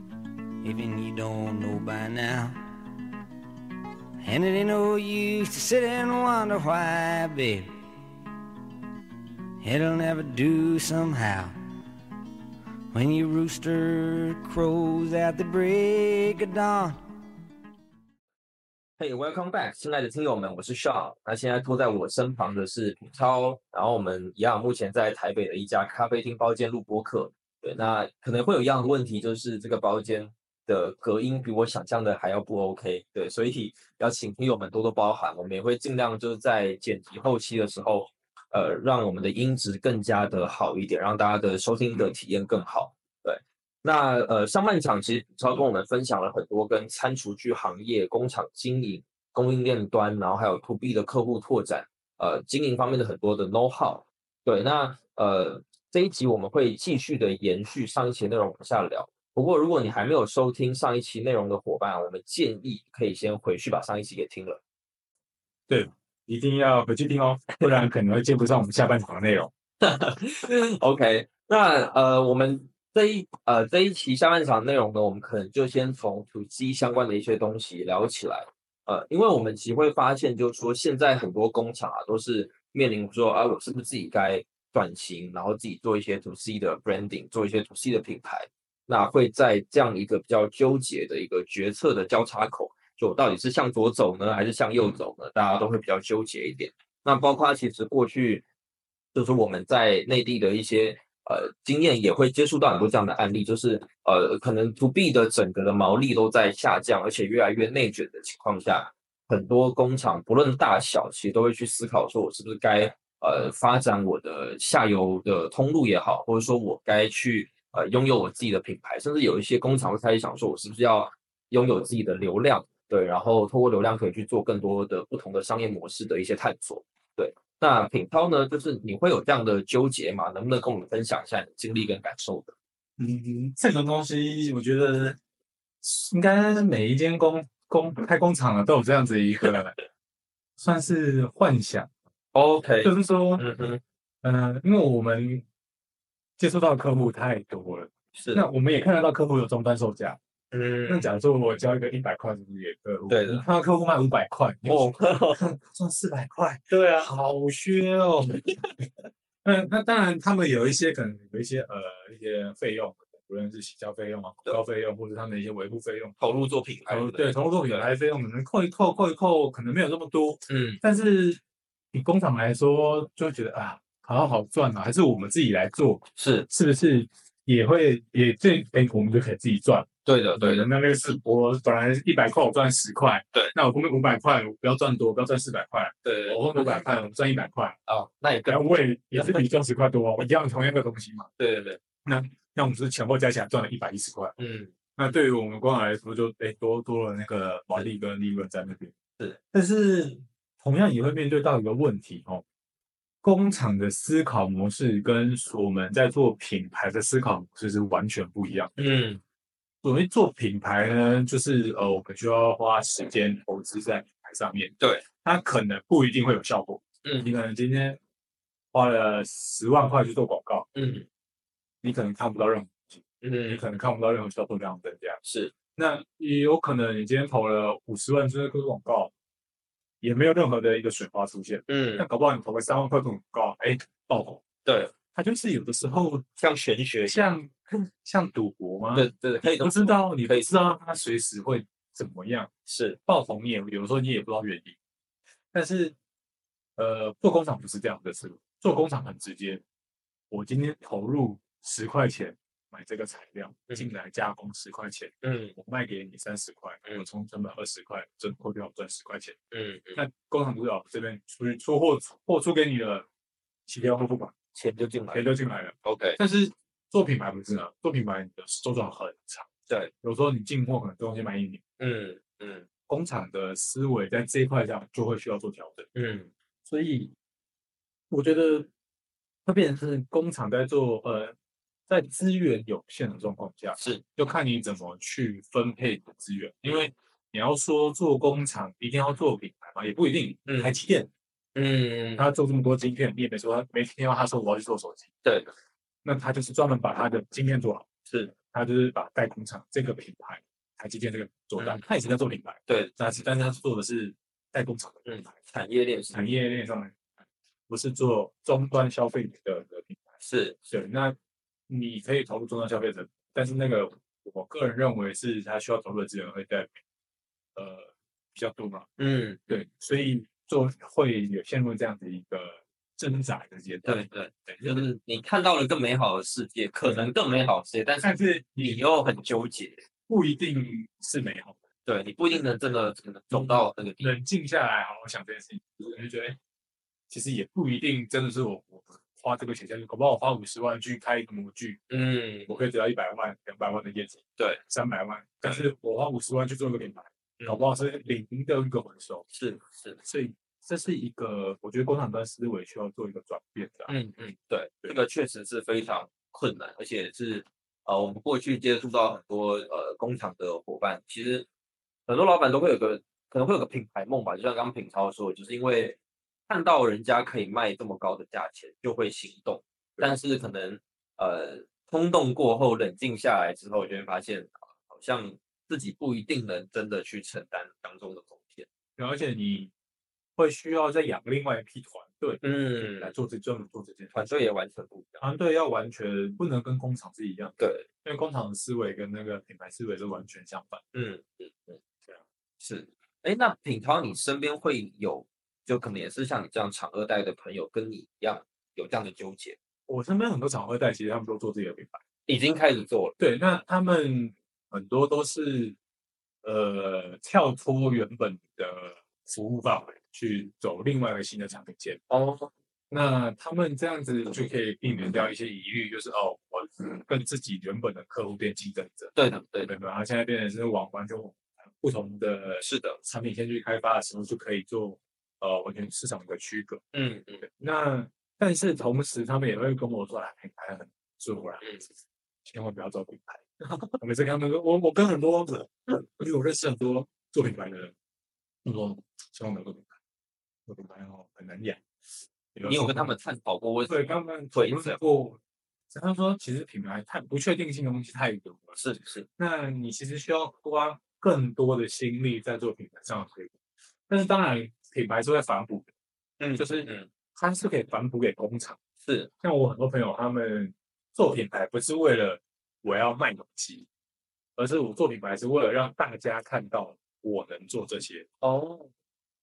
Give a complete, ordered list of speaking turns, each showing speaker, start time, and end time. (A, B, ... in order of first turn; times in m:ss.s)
0:00.6-0:02.6 A
0:04.2-0:07.7 A
0:09.6-0:11.6 A
0:12.9-0:17.0 A
0:19.0-1:04.6 B
1:05.7-1:09.5 C
1:09.8-1:38.4 B
1:39.1-2:12.6 B
2:13.0-2:15.2 C
2:15.8-2:19.8 C
2:20.6-2:21.9 C
2:22.3-2:23.8 B
2:22.8-2:23.4 C
2:24.2-2:25.4 C
2:26.4-2:30.2 C
2:28.1-2:28.5 B
2:30.5-2:31.1 B
2:30.9-2:38.6 C
2:33.1-2:33.4 B
2:34.6-2:35.4 B
2:36.7-2:37.1 B
2:39.4-2:46.2 C
2:46.2-2:47.3 B
2:46.9-2:51.4 C
2:50.5-2:50.8 B
2:51.9-3:07.8 C
2:56.2-2:56.5 B
3:00.0-3:00.7 B
3:06.0-3:07.1 B
3:07.9-3:09.4 B
3:08.5-3:11.3 C
3:11.4-3:11.8 B
3:12.0-3:14.3 C
3:14.4-3:14.7 B
3:15.0-3:18.9 C
3:19.5-3:22.4 C
3:23.2-3:28.8 C
3:28.8-3:29.2 B
3:29.8-3:38.0 C
3:34.8-3:35.0 B
3:37.0-3:37.3 B
3:38.7-3:40.7 C
3:40.8-3:41.1 B
3:41.8-3:45.2 C
3:43.2-3:43.6 B
3:45.2-3:45.5 B
3:45.8-3:49.1 C
3:50.0-3:54.4 C
3:51.7-3:52.1 B
3:54.6-3:54.9 B
3:55.1-3:56.3 C
3:56.4-3:57.3 B
3:57.0-3:57.5 C
3:58.0-4:02.5 C
3:58.9-4:00.5 B
4:02.7-4:03.0 B
4:03.1-4:04.8 C
4:05.5-4:05.9 C
4:06.8-4:09.6 C
4:10.3-4:19.4 C
4:15.2-4:15.5 B
4:19.5-4:20.0 B
4:19.9-4:23.1 C
4:23.7-4:24.3 C
4:24.6-4:25.3 B
4:25.1-4:29.5 C
4:25.8-4:26.2 B
4:30.0-4:31.6 C
4:31.8-4:32.7 B
4:32.9-4:35.9 C
4:35.9-4:36.3 B
4:36.7-4:37.1 C
4:38.1-4:38.7 C
4:39.4-4:41.4 C
4:41.9-4:51.1 C
4:43.8-4:44.0 B
4:50.4-4:50.8 B
4:51.6-4:52.3 B
4:52.2-4:55.1 C
4:55.2-4:55.5 B
4:56.0-5:05.3 C
5:01.6-5:01.8 B
5:02.7-5:02.9 B
5:05.1-5:06.4 B
5:06.1-5:07.1 C
5:07.7-5:10.2 C
5:10.2-5:10.6 B
5:10.7-5:11.2 C
5:11.7-5:16.8 C
5:17.6-5:18.9 C
5:19.0-5:19.4 B
5:19.5-5:24.9 C
5:23.8-5:29.8 B
5:26.8-5:27.1 C
5:28.0-5:28.8 C
5:30.1-5:31.6 C
5:31.9-5:34.2 B
5:33.3-5:36.4 C
5:37.1-5:41.8 C
5:41.9-5:42.6 B
5:42.5-5:49.3 C
5:49.3-5:50.0 B
5:50.0-5:53.9 C
5:53.9-6:01.5 B
6:02.1-6:06.0 B
6:06.5-6:18.7 B
6:19.0-6:19.7 C
6:20.4-6:22.4 C
6:22.4-6:23.1 B
6:23.0-6:24.5 C
6:24.1-6:25.2 B
6:25.2-6:30.8 C
6:27.6-6:27.9 B
6:30.9-6:31.8 B
6:32.6-6:39.6 B
6:39.9-6:42.0 C
6:42.3-6:43.2 B
6:43.2-6:45.8 C
6:46.4-6:52.0 C
6:52.1-6:52.5 B
6:52.9-7:06.8 C
6:59.2-6:59.7 B
7:02.6-7:03.0 B
7:06.9-7:07.4 B
7:07.4-7:11.8 C
7:12.4-7:17.9 C
7:13.6-7:14.0 B
7:18.6-7:20.0 C
7:20.7-7:21.8 C
7:22.5-7:23.1 C
7:22.7-7:25.0 B
7:23.9-7:25.4 C
7:25.9-7:28.8 C
7:28.8-7:29.2 B
7:29.4-7:33.6 C
7:34.1-7:35.9 C
7:36.4-7:37.1 B
7:36.6-7:38.8 C
7:39.0-7:39.3 B
7:39.4-7:43.9 C
7:44.6-7:48.2 C
7:48.4-7:48.9 B